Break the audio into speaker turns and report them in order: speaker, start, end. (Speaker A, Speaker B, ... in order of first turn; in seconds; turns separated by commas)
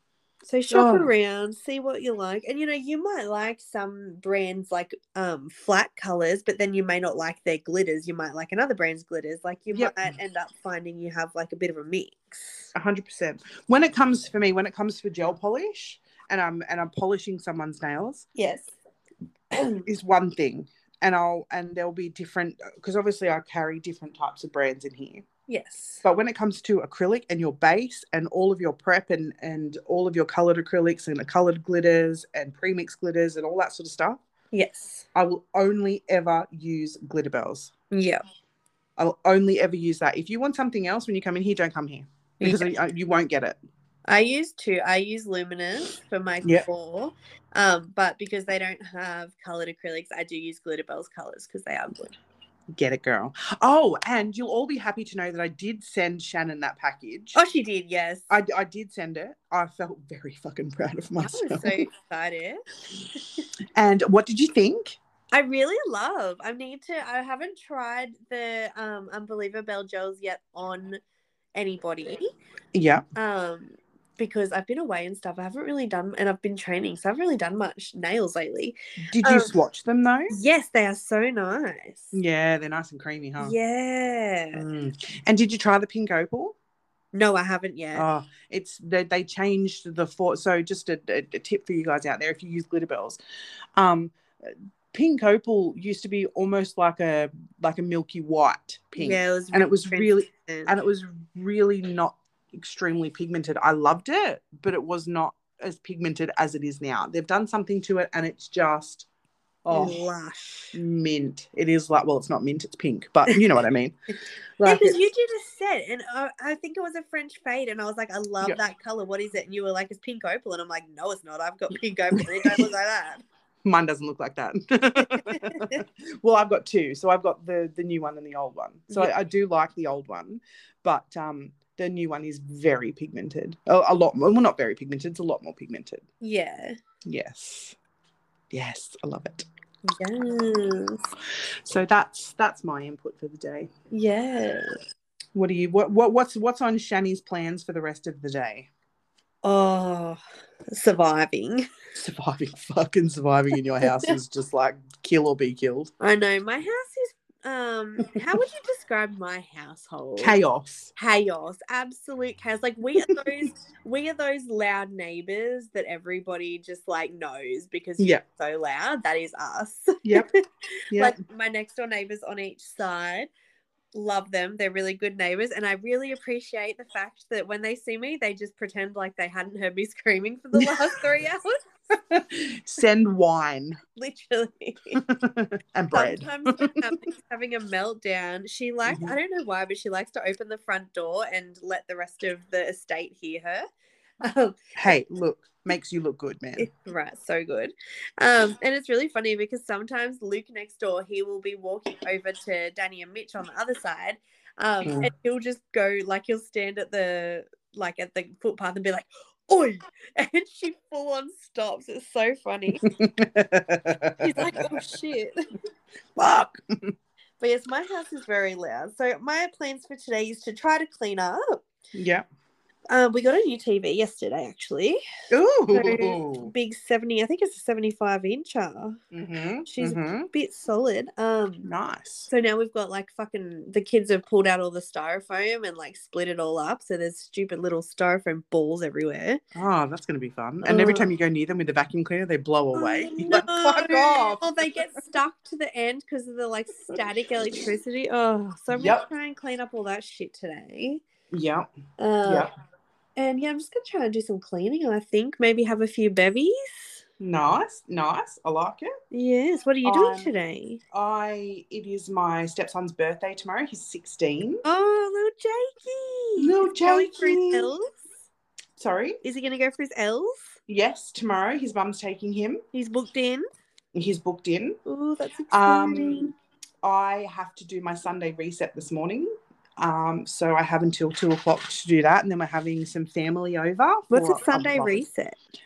Speaker A: 0.5-12.7, Speaker B: 0.7-1.1, Speaker B: 9.7-10.1, Speaker B: 12.7-18.2, Speaker A: 18.4-18.7, Speaker A: 19.6-19.8, Speaker B: 19.6-25.2, Speaker A: 25.5-26.0, Speaker B: 26.0-34.2, Speaker A: 34.5-35.0, Speaker B: 35.1-37.7, Speaker A: 37.9-38.2, Speaker B: 39.0-43.6, Speaker A: 42.4-42.7, Speaker A: 44.1-52.1, Speaker B: 52.7-57.4, Speaker A: 57.3-58.3, Speaker B: 58.3-61.8, Speaker A: 61.2-62.6, Speaker B: 63.7-65.0, Speaker A: 65.3-71.0, Speaker A: 71.5-72.3, Speaker B: 72.7-73.0, Speaker A: 73.2-79.5, Speaker B: 79.0-80.3, Speaker A: 80.3-82.2, Speaker B: 82.1-83.5, Speaker A: 83.4-84.6, Speaker B: 84.5-86.5, Speaker A: 87.1-88.1, Speaker B: 87.9-93.2, Speaker B: 93.8-109.1, Speaker A: 99.0-100.7, Speaker B: 109.6-110.0, Speaker A: 109.7-110.8, Speaker B: 110.7-113.9, Speaker B: 114.6-115.0, Speaker A: 114.6-123.2, Speaker B: 122.1-122.7, Speaker B: 123.6-136.0, Speaker A: 125.0-125.8, Speaker A: 136.2-136.7, Speaker B: 137.0-137.8, Speaker B: 138.5-139.4, Speaker A: 139.8-141.0, Speaker B: 141.6-143.7, Speaker A: 143.9-144.7, Speaker B: 145.3-148.7, Speaker A: 149.4-151.6, Speaker B: 151.9-155.9, Speaker A: 153.8-154.1, Speaker A: 156.0-160.3, Speaker B: 160.2-160.9, Speaker A: 160.9-173.3, Speaker B: 170.0-170.3, Speaker B: 170.9-171.2, Speaker A: 173.9-181.6, Speaker B: 180.6-181.0, Speaker B: 181.9-183.8, Speaker A: 183.9-185.0, Speaker B: 185.0-186.8, Speaker A: 185.9-193.6, Speaker B: 188.9-189.1, Speaker A: 194.2-194.9, Speaker B: 194.8-196.7, Speaker A: 196.6-212.9, Speaker B: 204.8-205.1, Speaker B: 212.8-214.8, Speaker A: 214.2-215.4, Speaker B: 216.2-216.9, Speaker A: 217.4-221.6, Speaker B: 221.9-222.2, Speaker A: 222.9-225.0, Speaker B: 225.3-226.5, Speaker A: 225.7-229.0, Speaker B: 229.1-230.3, Speaker A: 229.7-231.7, Speaker B: 231.7-232.3, Speaker A: 232.3-239.4, Speaker B: 239.5-244.7, Speaker A: 240.6-241.1, Speaker A: 242.7-251.0, Speaker B: 248.7-249.1, Speaker B: 251.3-251.7, Speaker A: 252.0-252.5, Speaker A: 253.2-257.0, Speaker B: 257.2-258.9, Speaker A: 259.1-260.8, Speaker B: 259.8-260.3, Speaker B: 260.9-264.6, Speaker A: 264.6-267.9, Speaker B: 266.4-267.7, Speaker B: 268.8-269.2, Speaker A: 269.2-270.6, Speaker B: 270.7-272.6, Speaker A: 272.7-273.4, Speaker B: 273.9-274.8, Speaker A: 274.9-276.3, Speaker B: 275.5-276.2, Speaker B: 276.8-285.0, Speaker A: 284.1-285.4